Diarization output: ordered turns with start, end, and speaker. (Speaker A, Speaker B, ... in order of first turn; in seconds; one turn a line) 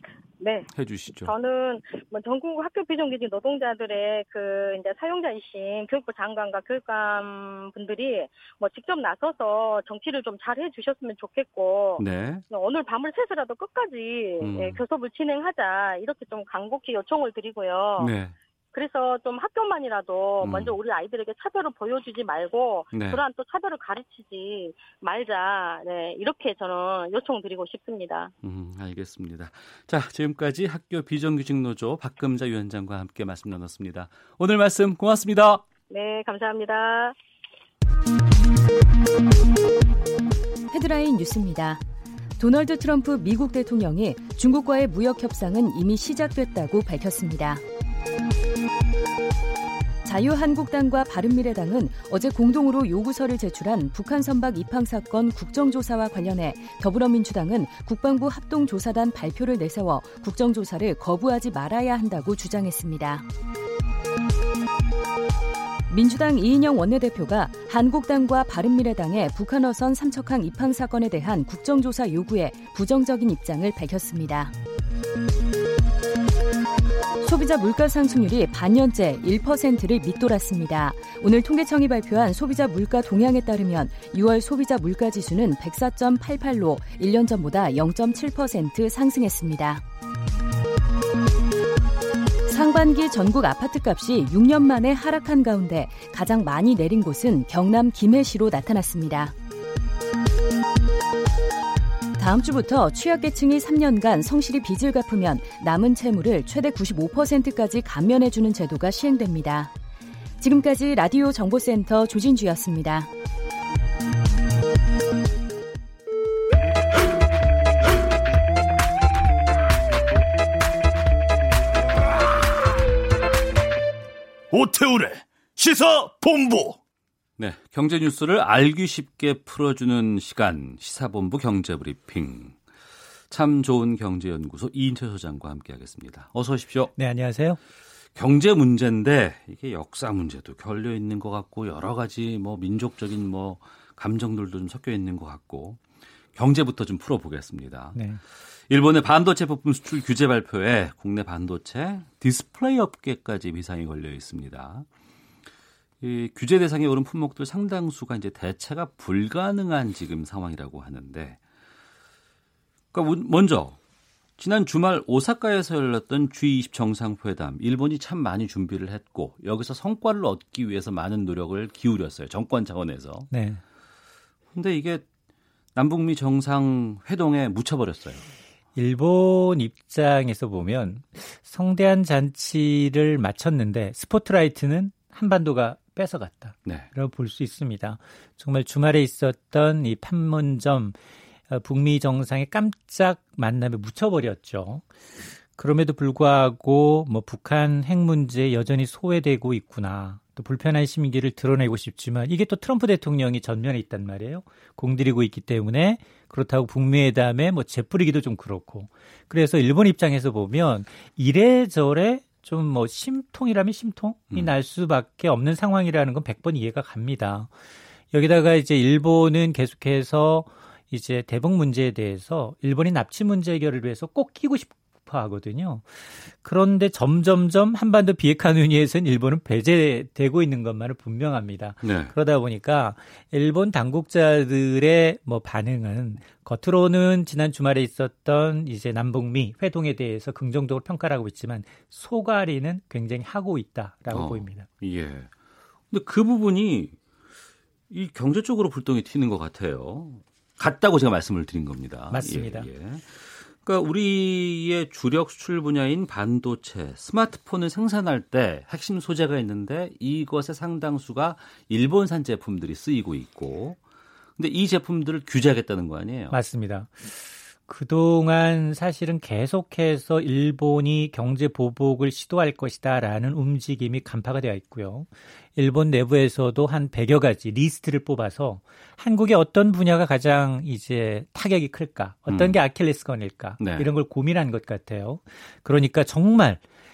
Speaker A: 0.4-0.7
Speaker B: 0.7-1.3
Speaker A: 1.2-18.1
Speaker B: 12.0-12.4
Speaker B: 14.4-14.8
Speaker B: 18.0-18.3
Speaker A: 18.7-28.3
Speaker B: 20.4-20.7
Speaker B: 22.9-23.2
Speaker B: 28.4-35.6
Speaker A: 35.9-37.1
Speaker C: 40.7-41.8
Speaker C: 42.4-47.6
Speaker C: 50.0-63.2
Speaker C: 65.9-74.5
Speaker C: 77.2-89.8
Speaker C: 92.5-99.3
Speaker C: 102.2-109.7
Speaker C: 110.4-113.1
Speaker D: 124.5-126.8
Speaker B: 127.4-132.6
Speaker B: 133.3-136.9
Speaker E: 137.0-137.6
Speaker B: 138.2-145.8
Speaker B: 146.3-148.0
Speaker E: 147.9-148.2
Speaker B: 148.7-154.8
Speaker B: 156.0-161.4
Speaker B: 162.9-163.8
Speaker B: 164.4-173.3
Speaker E: 173.3-173.6
Speaker B: 174.5-175.1
Speaker B: 175.7-178.2
Speaker E: 178.7-190.9
Speaker E: 191.5-194.8
Speaker E: 195.6-217.5
Speaker E: 218.1-244.7
Speaker B: 231.8-232.1
Speaker B: 244.1-245.3
Speaker B: 245.9-247.0
Speaker B: 247.9-263.8
Speaker E: 252.1-252.7
Speaker B: 264.4-266.4
Speaker E: 266.3-286.6
Speaker B: 282.3-282.6
Speaker B: 283.6-283.9